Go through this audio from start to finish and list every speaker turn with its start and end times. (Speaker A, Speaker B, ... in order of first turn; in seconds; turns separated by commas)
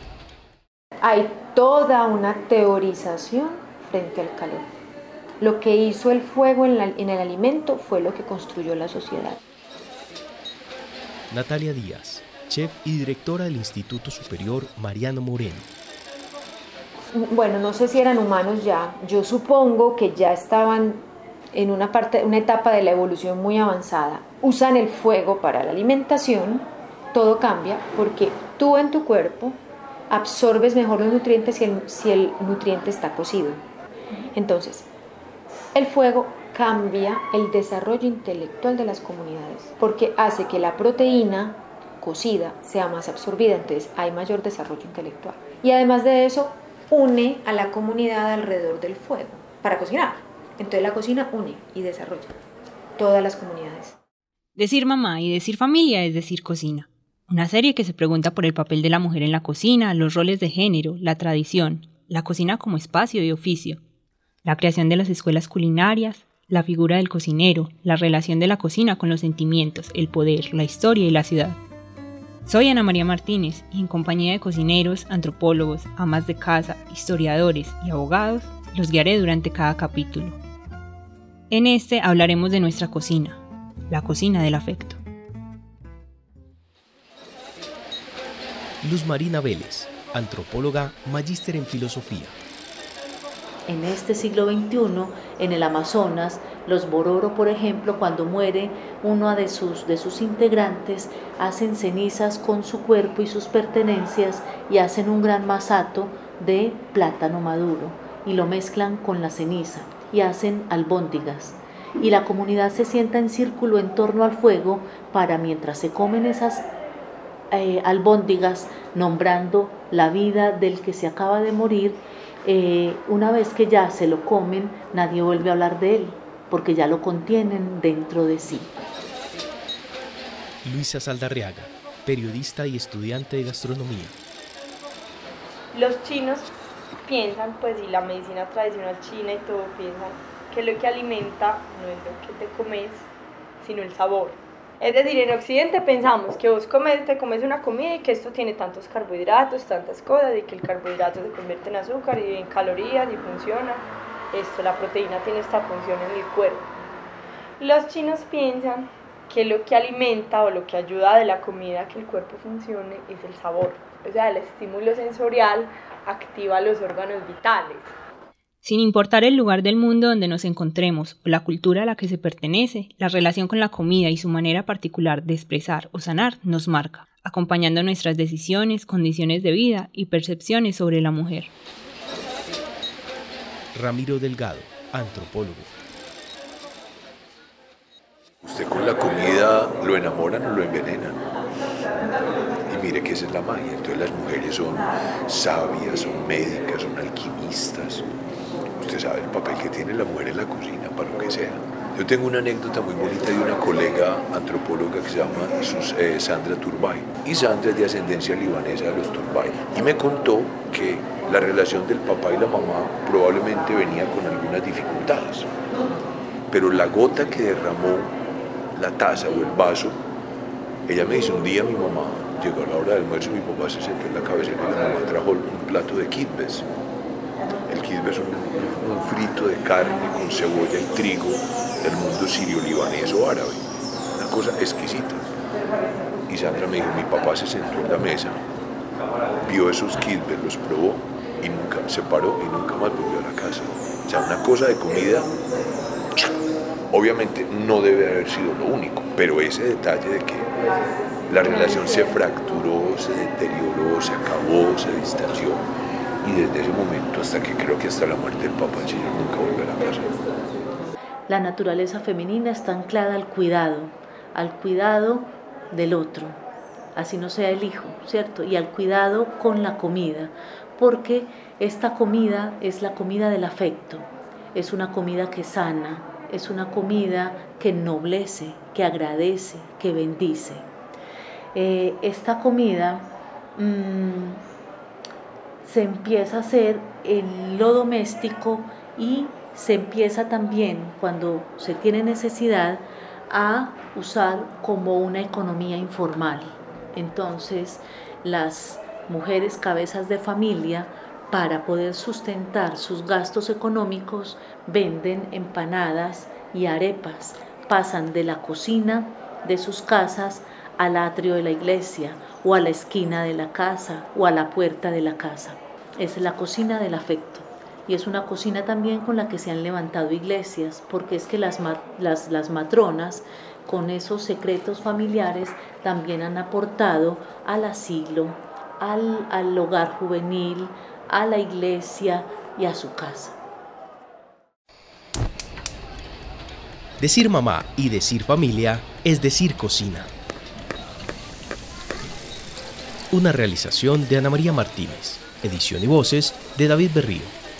Speaker A: 1.0-4.7, Speaker A: 5.4-9.4, Speaker B: 11.3-15.7, Speaker A: 17.1-29.6, Speaker A: 30.1-33.6, Speaker A: 34.3-34.9, Speaker A: 35.7-52.3, Speaker A: 53.0-54.0, Speaker C: 54.5-63.8, Speaker C: 64.4-71.6, Speaker C: 72.5-80.4, Speaker C: 81.5-85.0, Speaker B: 88.8-92.3, Speaker D: 93.7-116.7, Speaker D: 117.5-128.7, Speaker B: 130.6-134.2, Speaker E: 135.7-136.5, Speaker E: 137.0-156.7, Speaker E: 157.6-167.9, Speaker C: 168.6-181.5, Speaker B: 183.7-185.7, Speaker F: 188.4-191.2, Speaker F: 192.7-198.1, Speaker F: 198.8-215.5, Speaker F: 216.5-218.1, Speaker F: 218.7-220.0, Speaker F: 220.8-226.7, Speaker F: 227.7-235.3, Speaker F: 236.3-238.4, Speaker F: 239.4-245.3, Speaker F: 246.9-250.6, Speaker F: 251.3-255.7, Speaker A: 251.4-251.9, Speaker F: 256.2-260.1, Speaker D: 261.3-266.4, Speaker D: 266.9-280.6, Speaker D: 281.5-284.4, Speaker D: 285.6-333.4, Speaker B: 337.0-340.1, Speaker B: 343.1-347.4